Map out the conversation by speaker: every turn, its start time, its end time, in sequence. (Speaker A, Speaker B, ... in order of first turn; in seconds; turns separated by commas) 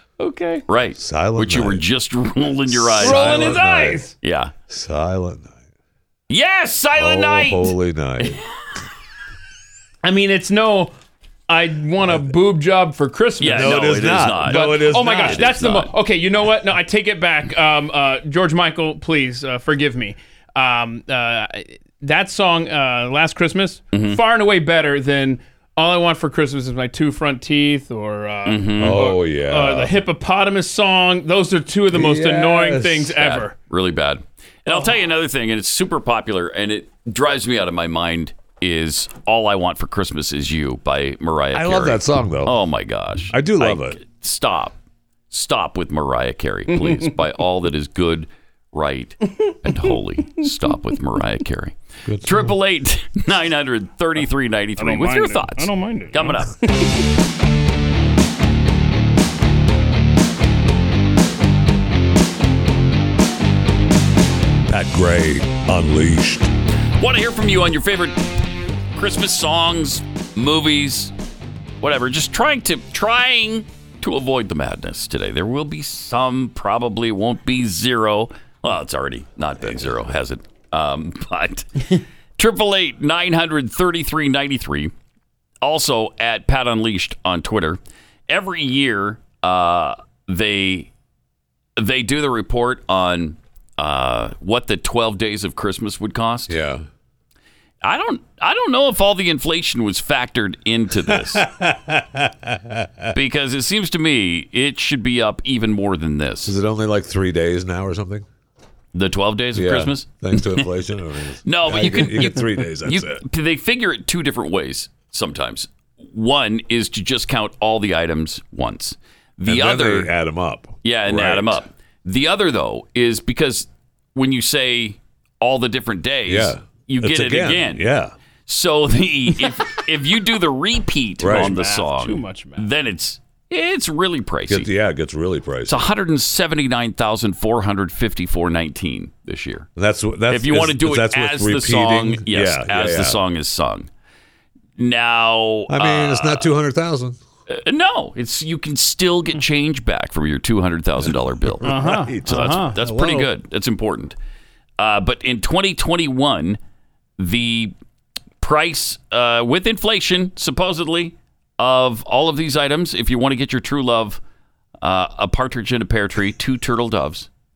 Speaker A: 0.2-0.7, Speaker B: 0.7-3.6, Speaker C: 1.0-1.8, Speaker C: 2.7-4.0, Speaker A: 3.0-4.1, Speaker B: 4.2-4.5, Speaker C: 4.7-5.6, Speaker B: 6.3-7.7, Speaker C: 7.0-8.4, Speaker A: 10.0-10.9, Speaker A: 11.5-33.5, Speaker C: 12.0-12.4, Speaker B: 13.4-15.9, Speaker C: 13.4-15.5, Speaker B: 23.9-24.2, Speaker B: 28.4-29.1, Speaker C: 28.8-30.0, Speaker C: 31.9-33.1, Speaker B: 33.2-44.8, Speaker A: 34.7-34.9, Speaker C: 41.5-42.6, Speaker C: 43.3-44.0, Speaker B: 45.3-56.5, Speaker A: 46.7-47.1, Speaker C: 52.0-52.5, Speaker A: 54.8-56.7, Speaker C: 64.7-66.5, Speaker B: 67.0-68.2, Speaker B: 69.0-71.1, Speaker B: 71.8-81.8, Speaker C: 79.6-80.0, Speaker B: 82.4-84.9, Speaker B: 85.6-90.9, Speaker B: 91.8-96.6, Speaker C: 96.5-96.8, Speaker B: 97.8-101.5, Speaker C: 101.1-103.1, Speaker B: 103.1-106.5, Speaker C: 106.5-108.3, Speaker B: 108.9-110.7, Speaker C: 109.5-113.2, Speaker B: 111.4-120.1, Speaker C: 119.5-121.7, Speaker B: 120.8-127.8, Speaker C: 126.3-128.1, Speaker B: 128.5-134.7, Speaker C: 131.2-131.6, Speaker A: 131.3-132.7, Speaker C: 134.5-135.8, Speaker B: 135.7-139.7, Speaker C: 139.8-143.2, Speaker B: 140.3-143.9, Speaker B: 144.8-146.5, Speaker C: 145.7-147.2, Speaker B: 147.5-154.2, Speaker C: 151.0-153.3, Speaker A: 151.6-152.8, Speaker B: 154.8-156.6, Speaker B: 157.2-157.7, Speaker B: 158.4-164.2, Speaker B: 164.8-167.3